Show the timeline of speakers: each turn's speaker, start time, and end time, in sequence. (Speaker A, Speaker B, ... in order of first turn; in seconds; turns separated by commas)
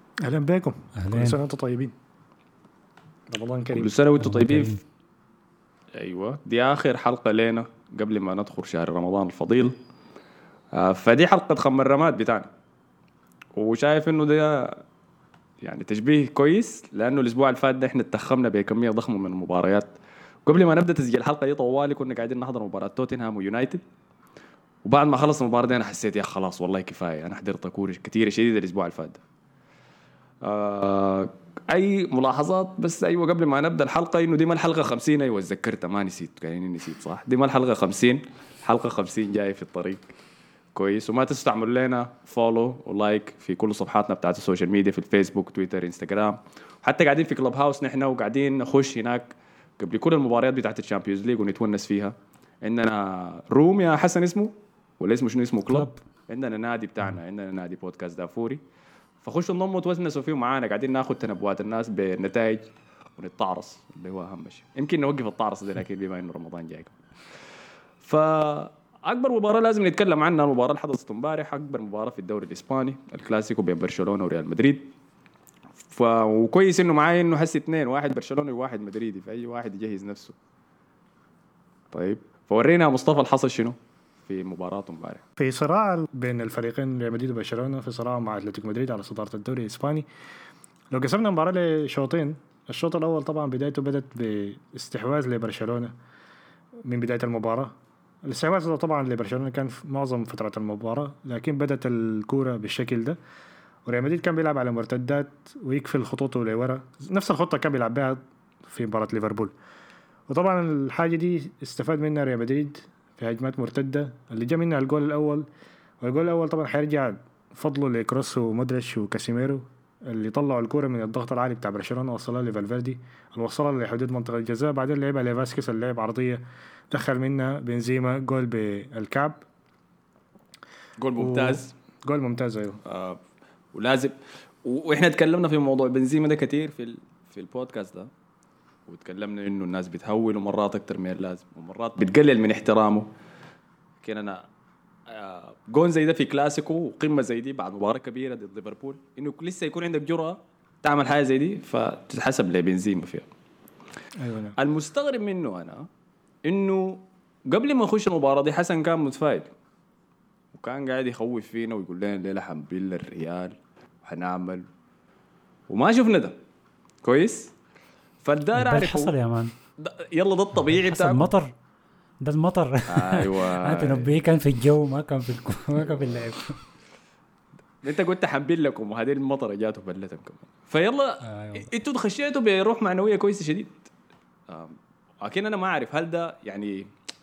Speaker A: 0.2-1.9, Speaker B: 1.0-1.4, Speaker A: 3.3-3.9, Speaker C: 3.7-4.8, Speaker B: 4.2-4.8, Speaker C: 5.9-9.8, Speaker C: 10.7-12.5, Speaker C: 13.6-14.8, Speaker C: 15.6-19.9, Speaker C: 20.4-23.8, Speaker C: 24.8-29.2, Speaker C: 30.4-40.0, Speaker C: 40.7-58.6, Speaker B: 55.7-56.0, Speaker C: 59.2-67.0, Speaker C: 68.0-74.9, Speaker C: 75.9-80.3, Speaker C: 81.9-85.2, Speaker A: 85.4-90.1, Speaker A: 90.9-95.9, Speaker A: 96.8-103.2, Speaker A: 103.8-109.5, Speaker A: 110.3-115.5, Speaker A: 116.0-129.4, Speaker C: 131.0-131.7, Speaker A: 131.2-132.8, Speaker C: 132.8-133.2, Speaker C: 133.7-138.1, Speaker C: 138.9-143.1, Speaker C: 144.0-144.4, Speaker C: 145.1-153.3, Speaker A: 154.2-154.6, Speaker C: 154.6-155.9, Speaker C: 156.4-159.5, Speaker C: 160.5-164.7, Speaker C: 165.7-166.4, Speaker C: 167.0-167.5, Speaker C: 168.2-169.1, Speaker B: 168.6-169.5, Speaker C: 169.8-171.3, Speaker B: 170.5-171.5, Speaker B: 172.2-176.6, Speaker C: 172.9-174.1, Speaker C: 175.8-176.1, Speaker C: 177.8-183.9, Speaker B: 181.2-181.7, Speaker C: 184.5-186.9